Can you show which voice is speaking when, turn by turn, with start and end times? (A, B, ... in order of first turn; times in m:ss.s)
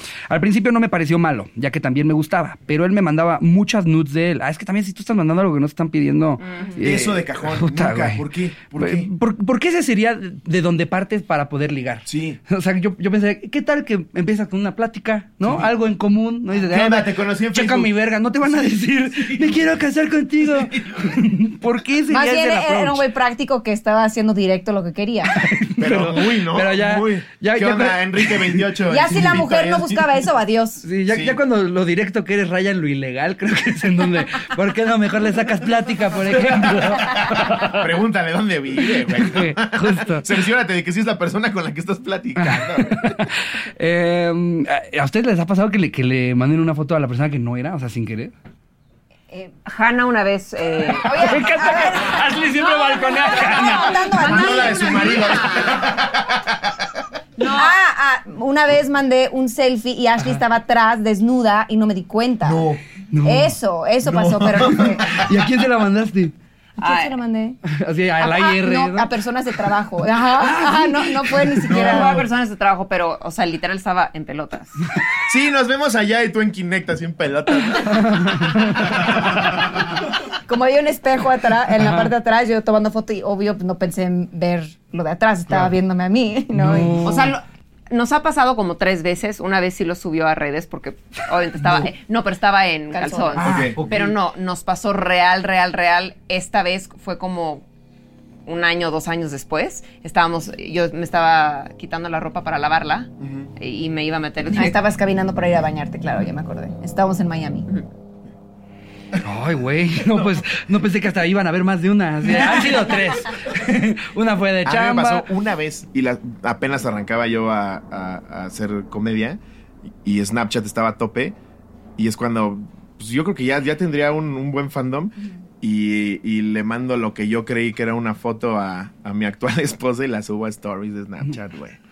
0:00.3-0:08.2 A
0:06.4-0:06.8 B
0:06.8-0:09.1 C
0:08.8-0:23.1 A
0:12.1-0:12.4 C
0:16.6-0:17.9 C
0:19.3-0:19.6 C
0:20.7-0:21.2 C
0:22.1-0:25.4 D
0:25.3-0:29.2 A
0:25.8-0:30.1 C
0:28.9-0:30.8 D
0:30.8-0:37.9 A
0:31.1-0:31.4 C
0:37.6-0:43.2 C
0:38.9-0:40.3 A
0:42.4-0:48.3 A
0:49.6-0:51.7 B
0:51.0-0:55.4 D
0:51.1-0:54.2 A
0:53.2-0:55.8 B
0:54.2-0:56.9 C
0:57.4-0:57.8 B
0:57.5-1:02.7 D
1:02.4-1:02.8 C
1:03.1-1:03.6 A
1:03.2-1:05.1 D
1:04.0-1:05.4 C
1:05.1-1:06.3 A
1:06.8-1:07.1 B
1:06.8-1:07.6 D
1:07.7-1:09.1 A
1:08.2-1:12.2 D
1:10.4-1:11.4 A
1:11.6-1:12.3 C
1:11.7-1:14.7 B
1:15.2-1:19.6 C
1:17.7-1:19.4 A
1:20.5-1:27.0 D
1:21.8-1:22.1 A
1:26.5-1:27.4 A
1:27.0-1:37.6 B
1:32.9-1:33.6 D
1:33.4-1:34.1 A
1:33.4-1:34.1 C
1:38.5-1:44.8 B
1:43.2-1:43.5 C
1:44.5-1:47.7 D
1:49.2-1:55.3 A
1:54.6-1:59.4 C
2:00.0-2:01.4 C
2:02.0-2:11.8 C